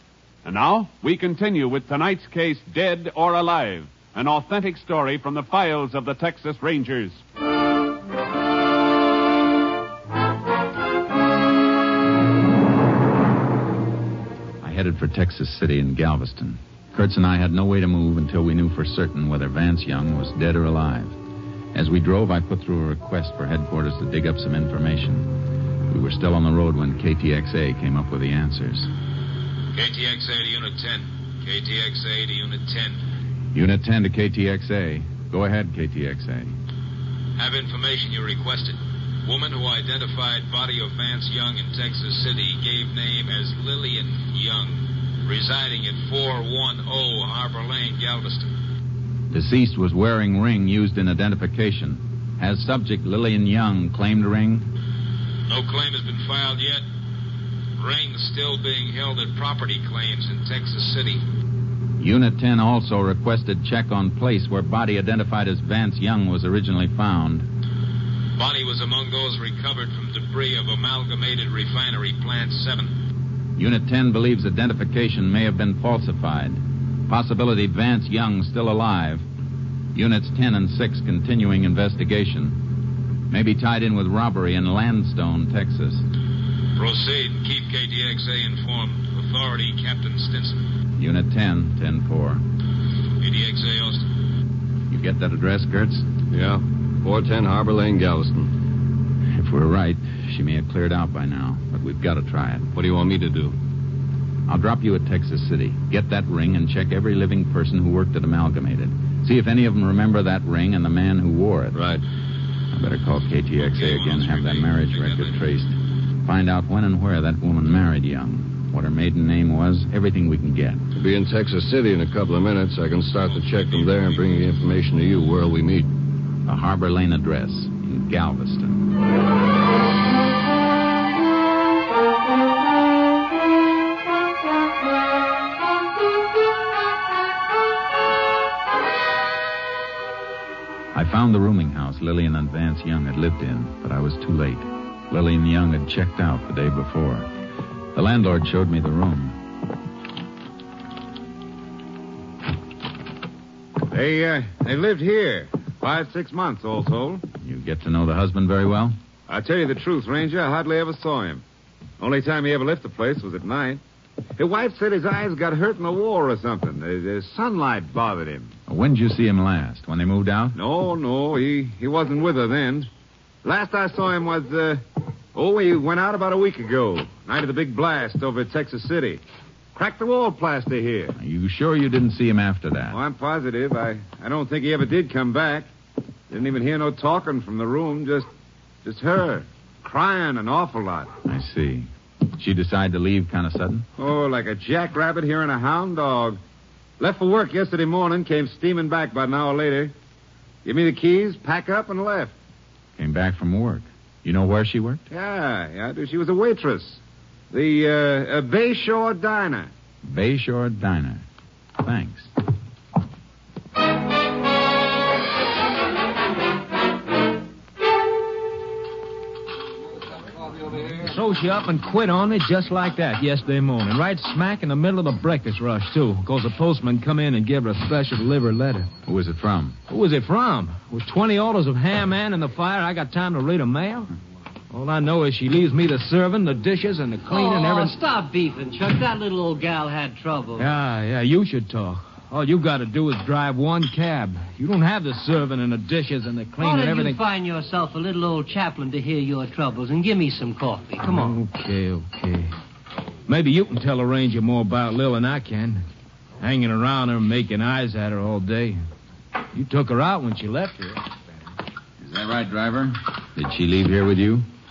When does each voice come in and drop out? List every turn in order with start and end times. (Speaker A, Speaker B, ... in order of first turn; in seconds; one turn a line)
Speaker A: 0.5-7.2
Speaker B: 14.6-21.2
Speaker B: 21.7-25.4
Speaker B: 25.9-28.9
Speaker C: 29.7-33.0
Speaker B: 33.5-36.5
Speaker C: 37.4-48.5
Speaker B: 49.3-54.7
Speaker C: 55.5-56.8
Speaker C: 57.8-61.2
Speaker B: 62.0-67.5
Speaker C: 68.4-73.0
Speaker B: 73.6-79.3
Speaker B: 79.9-82.6
Speaker B: 83.3-86.1
Speaker C: 86.8-90.7
Speaker B: 91.0-92.5
Speaker C: 93.2-94.1
Speaker B: 94.9-96.1
Speaker D: 96.3-98.5
Speaker B: 99.3-102.7
Speaker D: 102.8-103.5
Speaker B: 104.5-111.8
Speaker D: 111.7-112.0
Speaker B: 112.7-120.8
Speaker C: 113.7-115.5
Speaker D: 121.0-125.9
Speaker B: 126.5-128.9
Speaker B: 140.9-147.3
Speaker B: 147.9-149.4
Speaker E: 153.8-157.2
Speaker B: 157.4-159.0
Speaker E: 159.3-161.4
Speaker E: 162.0-163.8
Speaker E: 164.4-168.5
Speaker B: 168.7-170.6
Speaker E: 170.6-172.9
Speaker E: 173.4-174.8
Speaker E: 175.3-179.2
Speaker E: 179.8-181.2
Speaker B: 181.2-183.0
Speaker E: 182.9-185.7
Speaker E: 186.3-188.3
Speaker E: 188.8-191.1
Speaker B: 191.2-193.9
Speaker E: 194.0-196.4
Speaker E: 197.0-199.9
Speaker E: 200.7-202.3
Speaker B: 203.0-205.0
Speaker E: 205.1-209.7
Speaker B: 210.0-211.2
Speaker B: 211.8-212.3
Speaker F: 221.0-228.9
Speaker B: 229.1-229.8
Speaker F: 229.9-234.1
Speaker F: 234.7-237.9
Speaker G: 237.3-240.7
Speaker F: 240.6-247.2
Speaker G: 246.6-251.4
Speaker F: 251.0-252.5
Speaker F: 253.3-255.8
Speaker F: 256.4-258.8
Speaker F: 259.5-261.0
Speaker B: 262.0-264.5